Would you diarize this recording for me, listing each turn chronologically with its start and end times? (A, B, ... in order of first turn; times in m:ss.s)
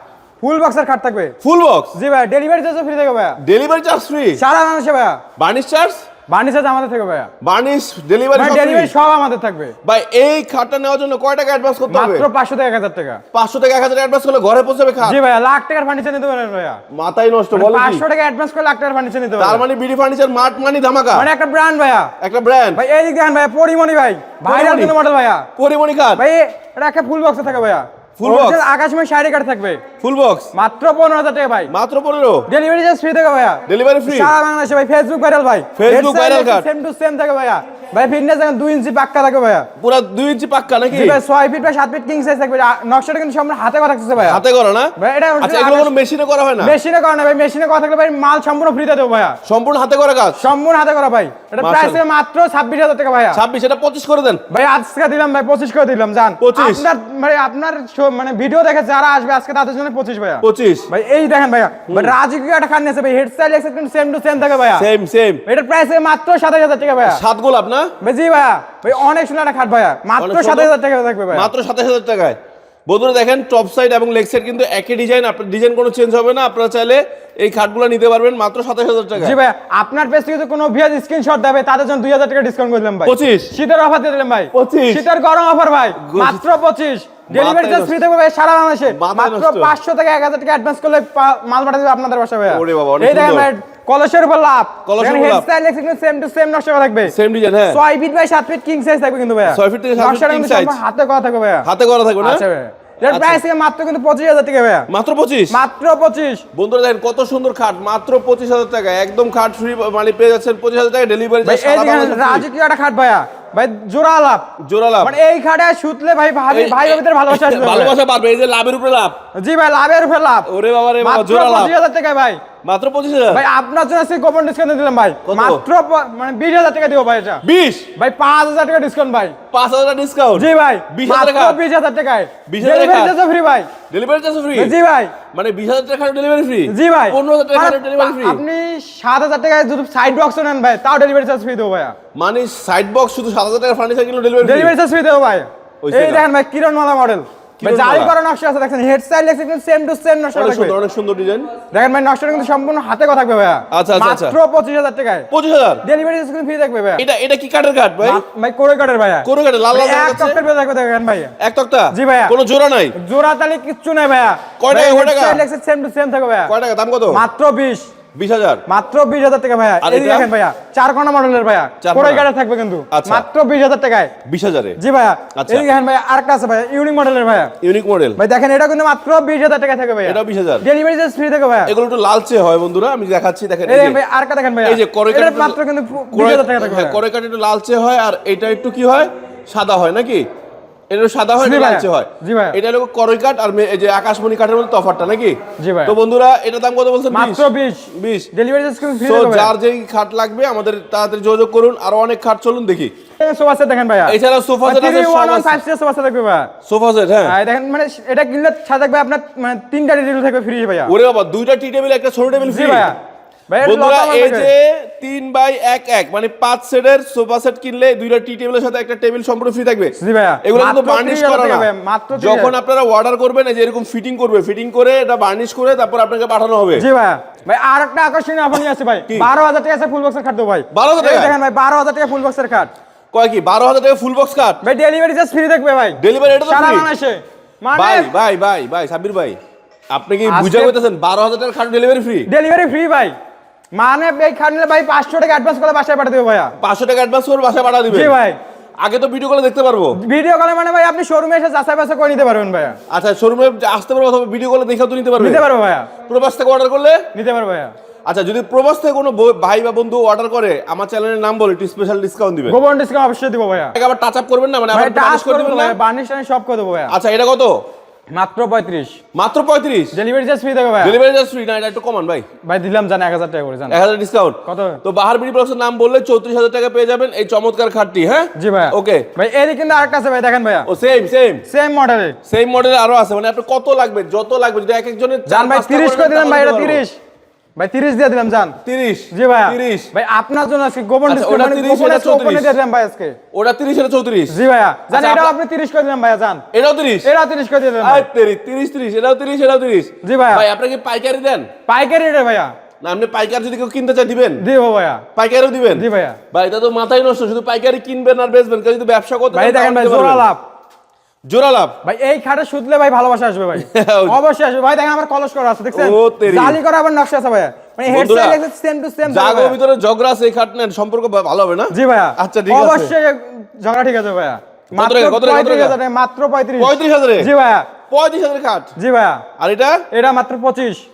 0:00.4-0:01.4 A
0:01.4-0:01.9 B
0:02.0-0:03.4 A
0:03.4-0:04.4 B
0:04.4-0:05.2 A
0:05.4-0:06.0 B
0:06.3-0:07.3 A
0:07.4-0:08.9 B
0:08.4-0:09.8 A
0:09.8-0:12.3 B
0:11.9-0:13.2 A
0:13.3-0:15.2 B
0:15.0-0:16.8 A
0:16.9-0:18.0 B
0:17.5-0:19.6 A
0:19.4-0:21.3 B
0:21.1-0:22.1 A
0:22.2-0:22.8 B
0:22.8-0:25.5 A
0:24.4-0:25.0 B
0:25.6-0:26.2 B
0:26.2-0:29.8 A
0:28.2-0:28.6 B
0:30.0-0:30.5 B
0:30.5-0:31.7 A
0:31.7-0:32.5 B
0:32.5-0:39.7 A
0:33.7-0:34.3 B
0:35.8-0:36.7 B
0:39.8-0:41.2 B
0:40.9-0:44.4 A
0:44.2-0:46.8 B
0:45.0-0:45.9 A
0:46.6-0:49.4 A
0:49.4-0:50.4 B
0:50.4-0:53.4 A
0:51.6-0:52.0 B
0:53.3-0:54.4 B
0:54.5-1:04.9 A
0:56.4-0:56.9 B
1:00.4-1:00.9 B
1:01.9-1:02.2 B
1:04.8-1:05.4 B
1:05.5-1:07.2 A
1:07.0-1:07.9 B
1:08.0-1:11.5 A
1:10.2-1:10.7 B
1:11.3-1:19.4 B
1:19.2-1:37.1 A
1:23.1-1:23.6 B
1:24.5-1:25.0 B
1:26.0-1:26.4 B
1:27.3-1:28.0 B
1:28.9-1:29.7 B
1:32.5-1:33.5 B
1:34.9-1:35.5 B
1:37.1-1:37.8 B
1:37.7-1:41.7 A
1:39.5-1:40.8 B
1:41.6-1:42.4 B
1:42.2-1:44.9 A
1:43.0-1:43.4 B
1:44.9-1:45.6 B
1:45.5-1:46.4 A
1:46.5-1:52.5 B
1:51.4-1:54.5 A
1:54.6-1:55.2 B
1:55.0-1:58.0 A
1:56.5-1:59.2 B
1:59.4-2:00.5 A
2:00.5-2:01.8 B
2:01.0-2:02.4 A
2:02.6-2:03.4 B
2:03.3-2:07.4 A
2:05.2-2:05.6 B
2:07.4-2:07.9 B
2:08.0-2:09.4 A
2:09.5-2:11.6 B
2:10.4-2:13.7 A
2:12.5-2:13.2 B
2:13.9-2:14.8 B
2:14.6-2:15.1 A
2:15.3-2:18.4 B
2:16.7-2:22.0 A
2:22.2-2:24.7 B
2:24.4-2:30.8 A
2:25.8-2:26.2 B
2:27.6-2:28.2 B
2:30.4-2:31.5 B
2:31.7-2:35.3 A
2:33.7-2:34.4 B
2:35.3-2:35.8 B
2:35.8-2:37.0 A
2:37.0-2:38.2 B
2:38.0-2:41.3 A
2:39.2-2:40.4 B
2:41.4-2:43.0 B
2:41.9-2:42.4 A
2:43.0-2:46.5 A
2:44.6-2:45.4 B
2:46.5-2:47.2 B
2:47.1-2:47.9 A
2:48.2-2:48.6 B
2:48.7-2:54.1 A
2:49.8-2:50.3 B
2:51.8-2:52.3 B
2:52.9-2:53.2 B
2:54.2-2:54.8 B
2:54.8-2:57.5 A
2:55.4-2:55.7 B
2:57.6-2:58.2 B
2:58.2-3:01.7 A
3:00.0-3:00.7 B
3:01.7-3:04.0 B
3:03.7-3:07.0 A
3:04.6-3:05.6 B
3:06.1-3:10.2 B
3:10.9-3:18.3 B
3:11.4-3:12.6 A
3:15.6-3:16.0 A
3:17.1-3:19.5 A
3:19.0-3:22.9 B
3:23.2-3:26.5 A
3:24.1-3:25.6 B
3:26.6-3:27.4 B
3:27.2-3:30.9 A
3:30.9-3:32.9 B
3:32.4-3:33.0 A
3:33.5-3:34.5 A
3:33.6-3:46.9 B
3:40.0-3:42.5 A
3:46.8-3:52.7 A
3:50.7-3:51.4 B
3:53.1-3:54.6 B
3:54.6-3:58.1 A
3:56.0-3:56.9 B
3:57.7-3:59.4 B
3:59.9-4:02.3 B
4:00.3-4:00.7 A
4:02.3-4:03.1 A
4:03.8-4:06.5 A
4:06.6-4:08.1 B
4:07.9-4:08.4 A
4:08.8-4:10.0 B
4:10.0-4:12.8 A
4:12.9-4:15.5 B
4:15.2-4:15.9 A
4:16.1-4:17.0 B
4:17.1-4:17.7 A
4:18.1-4:22.6 B
4:22.5-4:23.8 A
4:23.8-4:25.8 B
4:24.7-4:26.9 A
4:26.9-4:27.6 B
4:28.1-4:29.0 A
4:29.1-4:30.0 B
4:29.9-4:31.0 A
4:30.8-4:32.3 B
4:32.4-4:33.8 A
4:33.7-4:39.1 B
4:34.5-4:34.8 A
4:38.4-4:40.7 A
4:40.7-4:41.4 B
4:41.5-4:42.2 A
4:42.3-4:46.8 B
4:45.3-4:47.0 A
4:47.6-4:48.6 A
4:48.6-4:49.9 B
4:49.1-4:53.2 A
4:51.1-4:52.6 B
4:53.3-4:54.4 B
4:54.3-4:56.4 A
4:54.9-4:55.3 B
4:56.5-4:57.1 B
4:57.0-4:58.1 A
4:57.8-5:01.5 B
5:00.0-5:00.4 A
5:01.7-5:02.5 A
5:02.8-5:04.4 B
5:04.4-5:05.0 A
5:05.2-5:10.2 B
5:05.7-5:06.2 A
5:09.3-5:10.4 A
5:11.3-5:11.8 B
5:11.8-5:19.6 A
5:13.6-5:14.2 B
5:15.7-5:16.6 B
5:17.9-5:18.4 B
5:19.1-5:22.9 B
5:21.7-5:27.7 A
5:24.7-5:25.8 B
5:26.6-5:27.3 B
5:27.9-5:28.7 B
5:28.8-5:29.2 A
5:29.4-5:29.8 B
5:29.9-5:30.8 A